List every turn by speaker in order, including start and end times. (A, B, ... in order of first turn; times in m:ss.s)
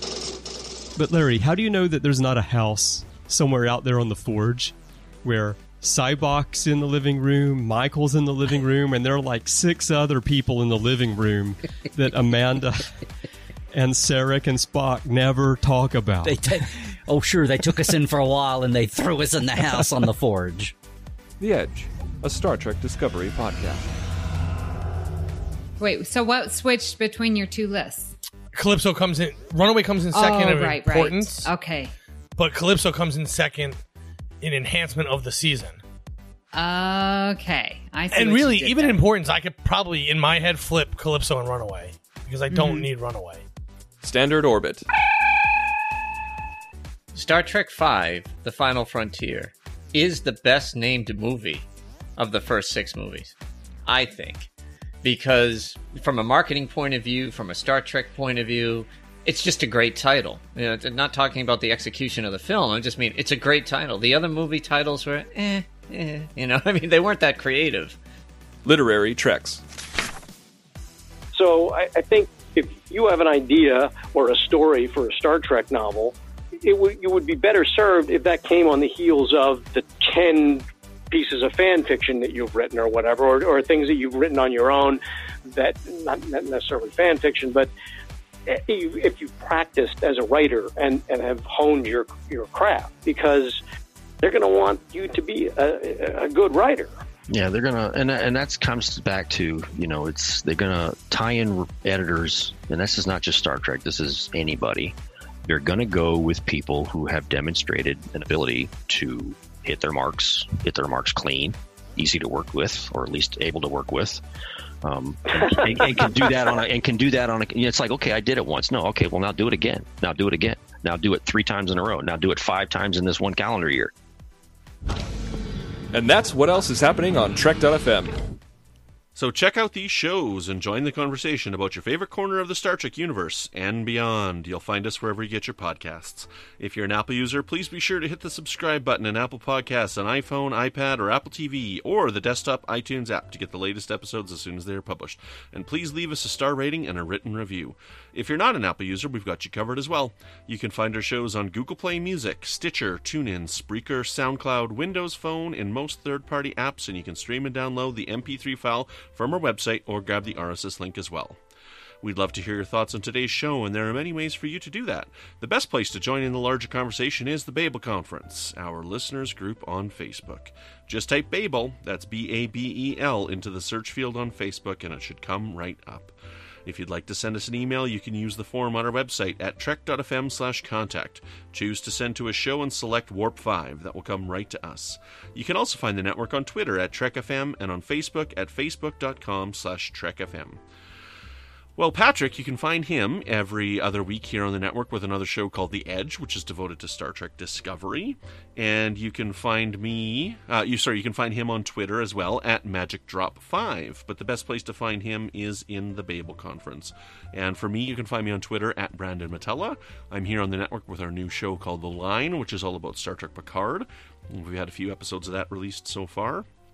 0:01.0-0:13.0 A
0:13.7-0:16.5 A
0:16.2-0:20.7 B
0:21.4-0:23.8 C
0:25.8-0:28.1 D
0:28.5-0:31.5 E
0:30.1-0:31.9 D
0:32.4-0:33.8 E
0:34.4-0:35.8 E
0:36.5-0:39.0 D
0:38.1-0:43.4 E
0:44.0-0:44.8 C
0:47.1-0:51.6 F
0:52.2-0:53.3 F
0:53.9-0:54.5 F
0:55.0-1:08.0 F
1:08.6-1:09.6 C
1:11.3-1:27.7 G
1:28.5-1:33.6 G
1:34.2-1:37.0 G
1:37.3-1:45.0 H
1:45.5-1:54.2 H
1:54.8-2:03.9 H
2:05.9-2:08.2 C
2:09.2-2:41.4 I
2:42.0-2:56.1 I
2:56.6-3:10.6 I
3:11.8-3:36.5 I